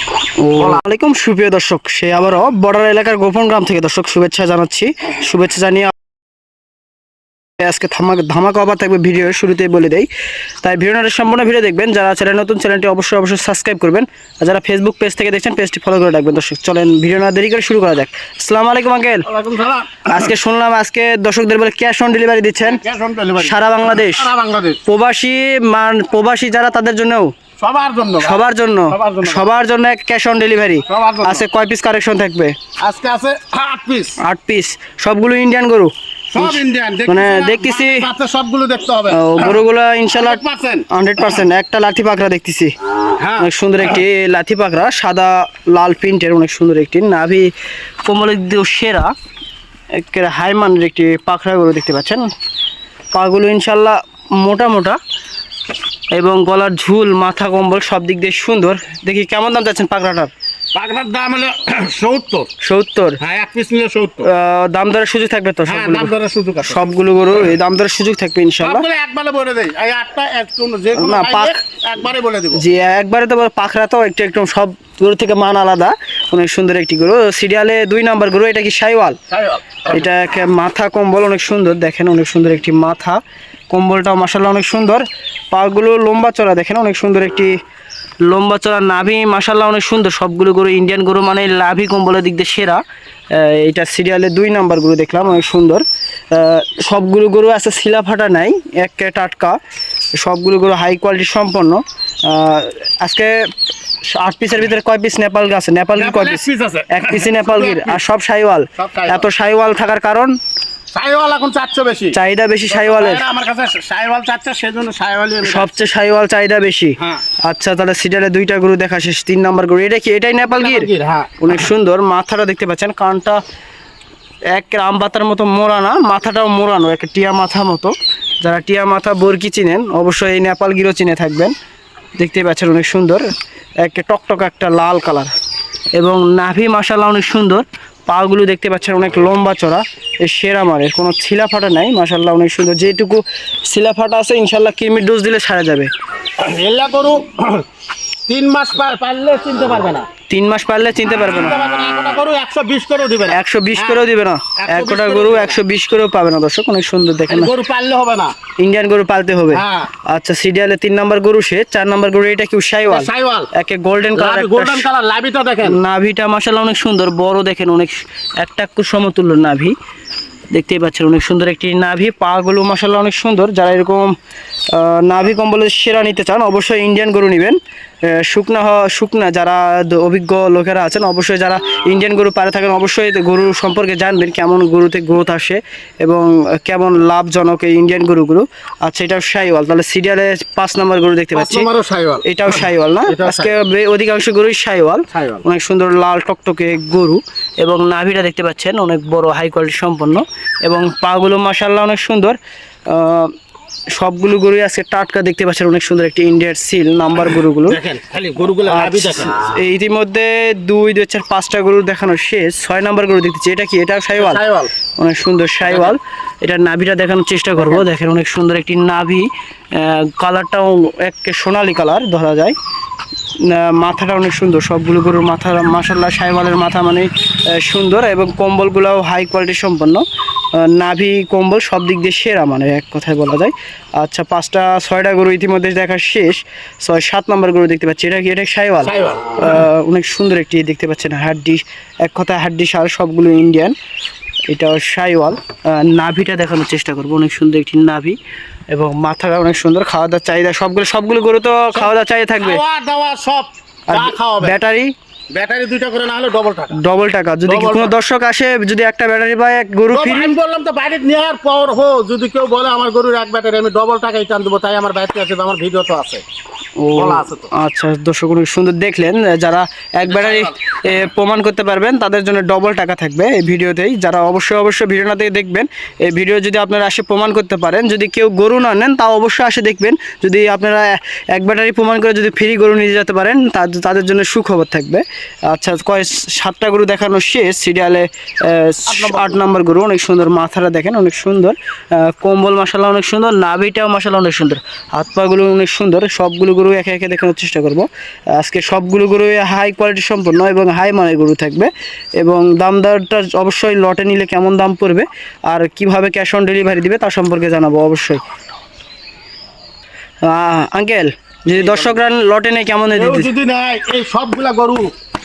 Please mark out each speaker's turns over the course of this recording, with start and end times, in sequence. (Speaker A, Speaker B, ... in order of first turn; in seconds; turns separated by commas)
Speaker A: 0.4-5.9, Speaker A: 7.6-10.1, Speaker A: 10.6-19.3, Speaker B: 19.3-20.3, Speaker A: 20.1-22.8, Speaker B: 22.6-24.8, Speaker A: 23.4-24.3, Speaker A: 24.9-27.3, Speaker B: 27.6-29.5, Speaker A: 28.2-32.6, Speaker B: 30.9-31.4, Speaker B: 32.8-34.2, Speaker A: 34.2-38.1, Speaker B: 36.3-39.6, Speaker A: 39.1-42.7, Speaker B: 40.1-40.9, Speaker B: 43.2-43.5, Speaker A: 43.4-47.5, Speaker A: 48.0-49.1, Speaker A: 50.0-52.2, Speaker A: 53.1-55.0, Speaker A: 56.1-60.3, Speaker B: 60.8-62.5, Speaker A: 62.6-63.2, Speaker B: 63.2-64.3, Speaker A: 64.3-68.9, Speaker B: 65.7-66.8, Speaker B: 68.6-72.6, Speaker A: 71.0-71.6, Speaker A: 72.5-79.2, Speaker B: 79.3-80.0, Speaker A: 79.9-87.5, Speaker A: 88.3-92.8, Speaker A: 93.3-99.6, Speaker A: 100.2-103.5, Speaker A: 104.1-110.3, Speaker B: 106.0-108.0, Speaker B: 108.8-109.3, Speaker B: 110.9-112.2, Speaker A: 112.1-113.2, Speaker B: 112.7-115.7, Speaker A: 115.4-120.9, Speaker B: 120.5-121.3, Speaker A: 121.4-123.4, Speaker A: 124.5-131.6, Speaker A: 132.2-133.3, Speaker A: 133.8-135.3, Speaker A: 136.0-145.9, Speaker B: 146.4-147.7, Speaker B: 148.3-150.1, Speaker A: 150.3-151.6, Speaker B: 151.1-154.0, Speaker A: 153.3-157.5, Speaker B: 154.6-155.6, Speaker B: 157.3-158.3, Speaker A: 158.6-164.9, Speaker B: 159.5-159.9, Speaker B: 162.9-163.5, Speaker B: 164.2-165.8, Speaker A: 165.6-169.8, Speaker A: 170.5-174.1, Speaker A: 174.7-191.7, Speaker B: 191.3-193.6, Speaker A: 192.2-203.3, Speaker B: 195.1-195.4, Speaker A: 204.0-207.8, Speaker B: 207.7-209.4, Speaker A: 208.7-214.4, Speaker B: 214.1-214.7, Speaker A: 215.0-222.6, Speaker B: 215.6-216.0, Speaker B: 217.6-217.8, Speaker A: 223.4-243.8, Speaker B: 238.8-239.6, Speaker A: 244.5-248.2, Speaker A: 248.7-252.6, Speaker B: 251.7-254.6, Speaker A: 253.9-254.9, Speaker B: 255.3-256.8, Speaker A: 256.8-260.3, Speaker B: 257.5-257.9, Speaker B: 259.9-266.2, Speaker A: 266.8-308.2, Speaker B: 266.9-267.5, Speaker B: 270.0-270.5, Speaker B: 288.9-289.4, Speaker A: 310.2-313.3, Speaker B: 311.5-312.0, Speaker B: 312.9-314.9